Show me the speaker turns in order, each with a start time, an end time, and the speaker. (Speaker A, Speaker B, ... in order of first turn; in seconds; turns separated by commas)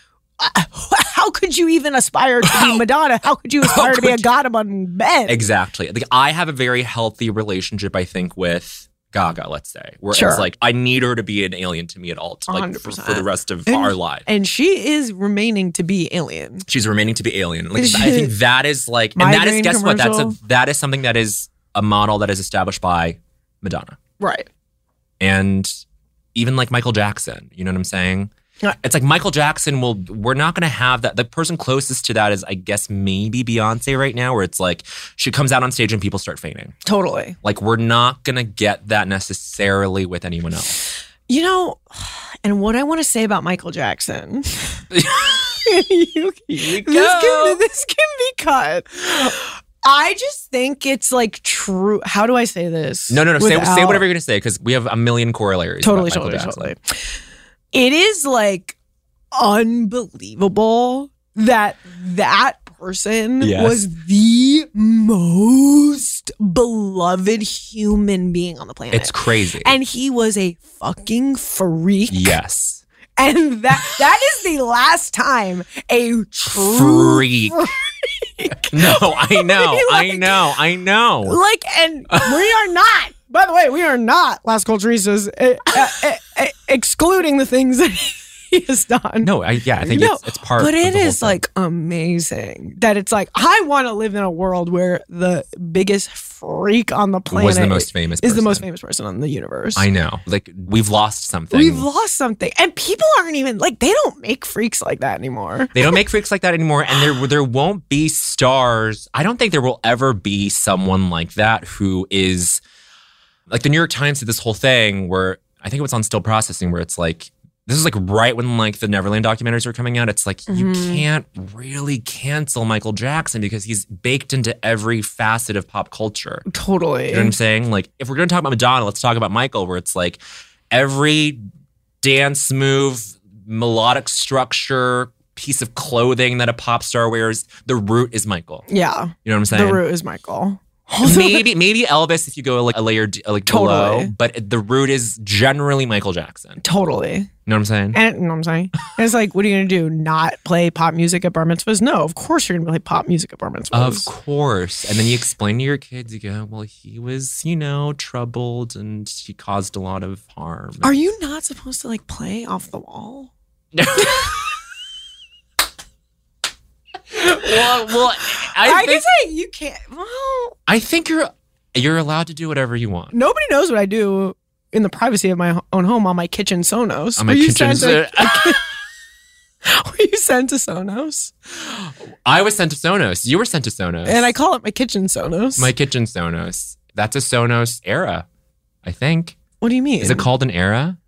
Speaker A: 0.4-5.4, Speaker B: 2.5-2.8, Speaker B: 3.6-4.2, Speaker B: 5.3-14.3, Speaker A: 10.1-10.5, Speaker A: 12.5-16.7, Speaker B: 16.7-24.0, Speaker A: 17.8-18.3, Speaker A: 19.2-20.4, Speaker A: 24.2-24.5, Speaker B: 25.2-25.8, Speaker B: 26.4-36.8, Speaker A: 36.9-37.4, Speaker B: 37.4-40.8, Speaker A: 41.3-44.8, Speaker B: 44.9-45.6, Speaker A: 45.5-54.0, Speaker B: 46.5-47.6, Speaker B: 53.1-56.7, Speaker A: 55.8-57.1, Speaker A: 57.7-58.8, Speaker A: 59.3-72.4, Speaker B: 63.4-63.8, Speaker B: 68.9-69.8, Speaker B: 72.1-72.8, Speaker A: 73.2-80.5, Speaker B: 76.5-77.7, Speaker B: 78.7-81.4, Speaker A: 81.2-99.9, Speaker B: 82.1-82.4, Speaker B: 89.2-91.4, Speaker B: 97.3-98.7, Speaker B: 99.8-101.9, Speaker A: 101.5-106.0, Speaker B: 105.7-112.6, Speaker B: 113.5-126.5, Speaker A: 120.5-121.0, Speaker A: 126.5-127.3, Speaker B: 127.1-130.2, Speaker B: 130.7-131.4, Speaker B: 132.0-138.7, Speaker A: 138.7-141.5, Speaker B: 139.2-139.8, Speaker B: 141.0-146.6, Speaker A: 143.5-144.1, Speaker A: 146.6-147.3, Speaker B: 147.5-148.0, Speaker A: 147.9-154.1, Speaker B: 153.7-160.9, Speaker A: 160.8-163.3, Speaker B: 163.8-164.4, Speaker B: 167.1-169.1, Speaker A: 168.6-170.6, Speaker B: 170.7-173.1, Speaker A: 173.1-178.6, Speaker B: 177.2-178.6, Speaker A: 179.7-181.3, Speaker B: 181.7-184.3, Speaker A: 184.1-185.7, Speaker B: 185.6-188.3, Speaker B: 188.8-189.4, Speaker A: 189.6-190.3, Speaker B: 190.0-191.0